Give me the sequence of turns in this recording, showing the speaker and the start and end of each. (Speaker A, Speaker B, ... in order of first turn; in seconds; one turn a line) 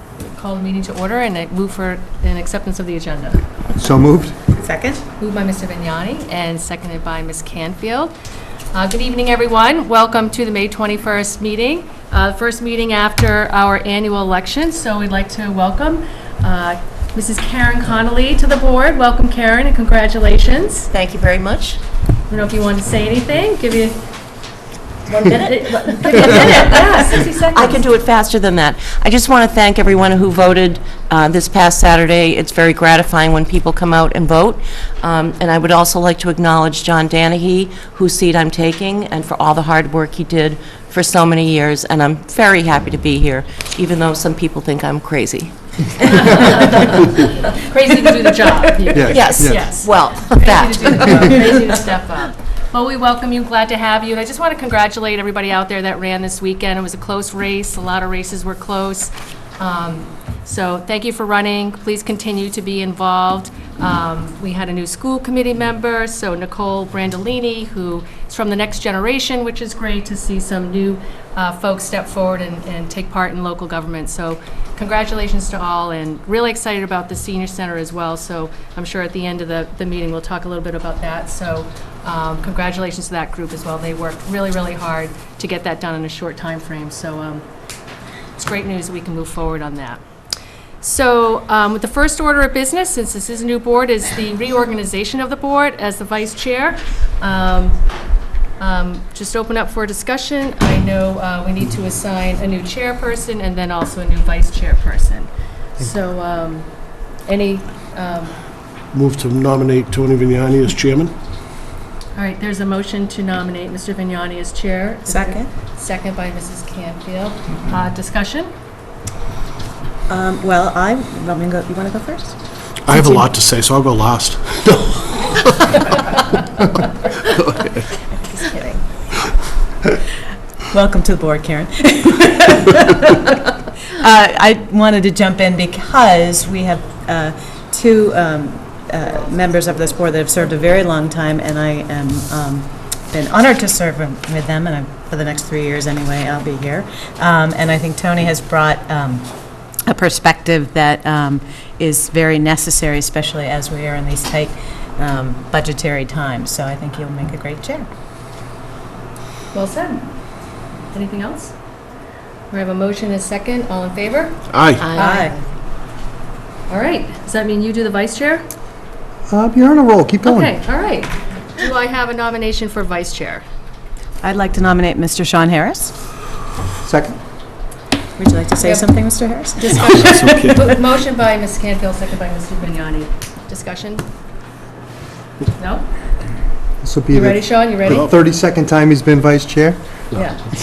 Speaker A: 0.2-3.4
Speaker B: 3.8-4.4
Speaker C: 4.5-5.0
Speaker A: 5.2-8.1
Speaker A: 8.7-20.9
Speaker D: 20.9-21.8
Speaker A: 22.3-24.0
Speaker A: 25.1-27.9
Speaker D: 26.2-26.5
Speaker D: 27.2-47.0
Speaker A: 46.0-87.5
Speaker B: 48.9-49.7
Speaker D: 49.1-51.7
Speaker A: 88.4-90.0
Speaker A: 90.8-97.8
Speaker A: 98.6-106.7
Speaker A: 107.3-108.4
Speaker E: 108.9-111.1
Speaker A: 112.2-118.5
Speaker C: 115.1-115.5
Speaker C: 120.1-122.4
Speaker E: 122.9-127.9
Speaker C: 122.9-123.3
Speaker C: 128.1-128.8
Speaker C: 130.7-149.3
Speaker C: 149.9-157.9
Speaker A: 159.5-160.1
Speaker A: 160.9-161.5
Speaker A: 162.5-165.3
Speaker E: 164.5-164.9
Speaker D: 164.8-165.4
Speaker C: 164.9-165.4
Speaker A: 166.7-168.4
Speaker B: 169.3-170.6
Speaker A: 170.2-173.4
Speaker C: 174.2-175.9
Speaker B: 176.8-177.2
Speaker C: 178.2-180.6
Speaker A: 178.6-178.9
Speaker A: 179.6-184.1
Speaker E: 179.8-180.7
Speaker A: 185.6-185.9
Speaker B: 186.8-189.8
Speaker A: 187.1-188.1
Speaker A: 190.1-190.4